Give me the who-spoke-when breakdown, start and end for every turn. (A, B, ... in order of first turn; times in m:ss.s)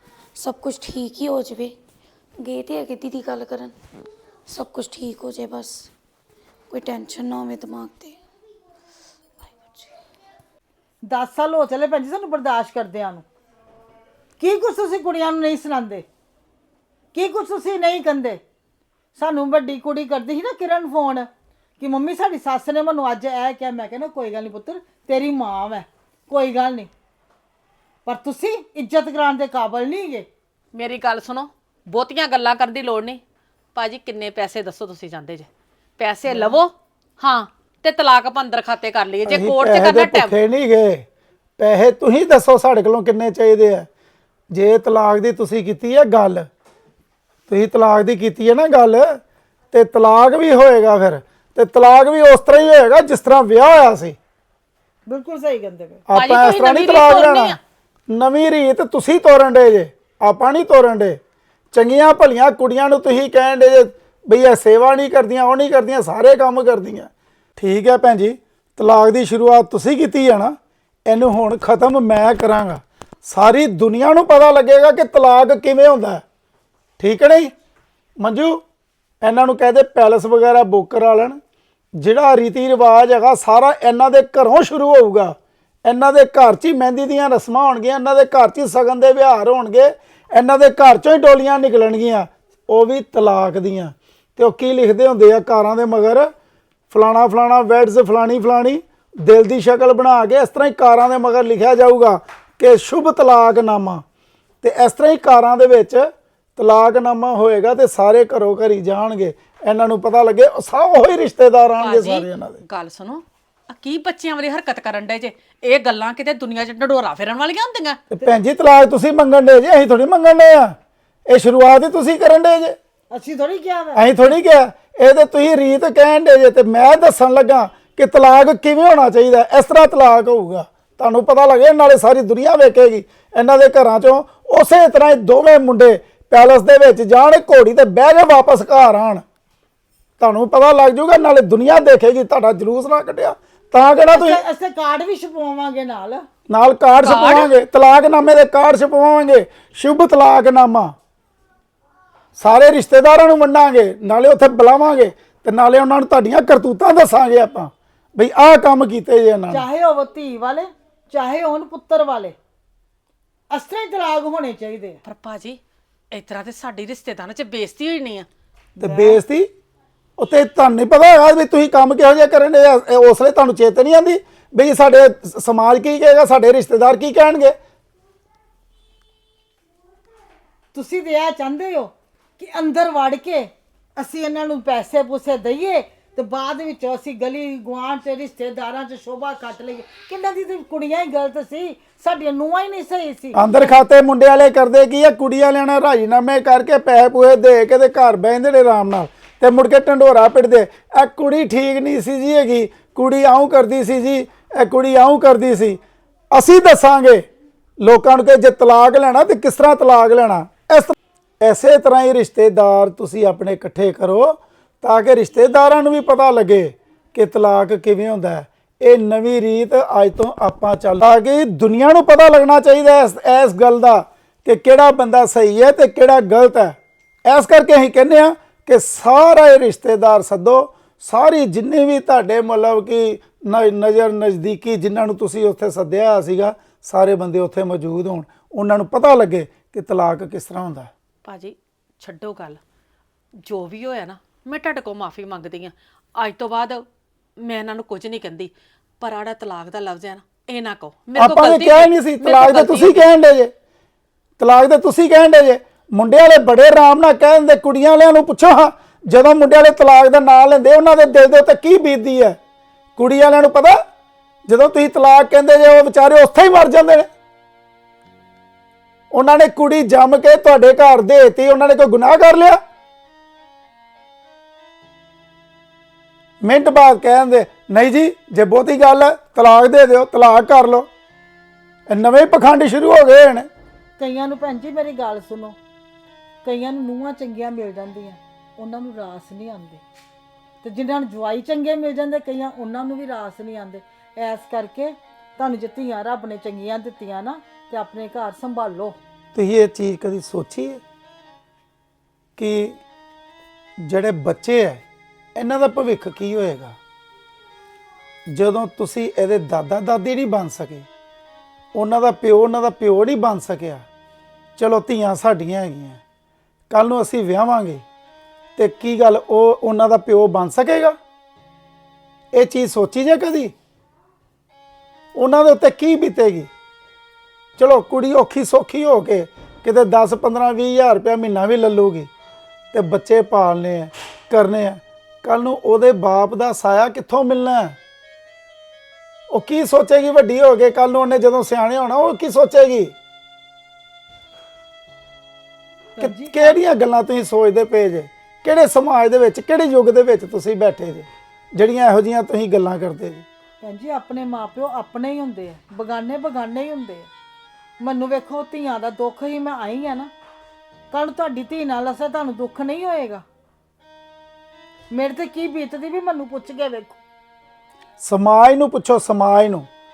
0:00.4-0:01.7 A
0:02.4-0:03.7 A
0:04.5-0:05.9 A
0:06.7-0:08.2 A
0:09.4-0:09.9 A
0:11.0-0:13.2 B
0:14.4-0:16.0 B
0:17.1-0:18.4 B
0:19.2-0:26.9 B
0:28.0-0:30.3 B
0:30.7-0:33.2 C
0:33.7-0:40.4 C
0:39.2-0:41.0 D
0:41.6-0:43.9 D
0:44.5-0:46.5 D
0:47.5-0:49.2 D
0:49.7-0:54.2 D
0:55.0-0:56.0 B
0:56.1-0:57.6 D
0:56.1-0:57.6 C
0:58.1-1:01.2 D
1:01.7-1:16.2 D
1:17.0-1:17.5 D
1:18.2-1:18.6 D
1:19.2-1:21.4 D
1:22.0-1:36.3 D
1:36.9-1:44.0 D
1:44.6-1:52.6 D
1:51.8-1:58.0 C
1:58.1-2:00.8 D
2:01.3-2:02.8 D
2:03.1-2:04.1 B
2:03.9-2:19.2 D
2:20.2-2:24.4 D
2:24.1-2:26.3 B
2:26.5-2:30.9 D
2:27.0-2:27.5 C
2:32.4-2:39.6 D
2:39.5-2:42.4 B
2:43.5-2:45.0 B
2:45.0-2:45.6 C
2:46.1-2:48.3 C
2:48.8-2:49.5 D
2:48.8-2:49.2 B
2:50.2-2:57.6 D
3:00.7-3:13.7 B
3:13.3-3:25.8 D
3:26.3-3:27.2 D
3:27.8-4:00.9 D
4:01.2-4:02.6 C
4:03.4-4:06.8 C
4:07.4-4:13.1 C
4:11.2-4:13.5 D
4:14.4-4:22.4 D
4:23.0-4:23.8 D
4:24.5-4:27.1 D
4:29.1-4:32.6 D
4:36.4-4:40.9 D
4:41.9-4:43.5 D
4:44.0-4:45.6 B
4:46.4-4:49.8 B
4:50.6-4:59.0 B
4:59.3-5:00.8 D
5:02.4-5:02.8 D
5:03.8-5:04.8 D
5:05.4-5:06.8 D
5:08.3-5:10.9 D
5:11.7-5:13.8 D
5:14.6-5:16.0 D
5:16.7-5:17.8 D
5:18.6-5:21.0 D
5:22.3-5:23.5 D
5:25.2-5:26.5 D
5:27.6-5:32.1 D
5:32.7-5:37.8 D
5:39.3-5:42.9 D
5:46.0-5:46.6 B
5:46.0-5:53.2 D
5:53.6-5:57.1 B
5:57.8-6:00.1 B
6:00.9-6:03.2 B
6:04.9-6:07.0 B
6:08.0-6:09.7 D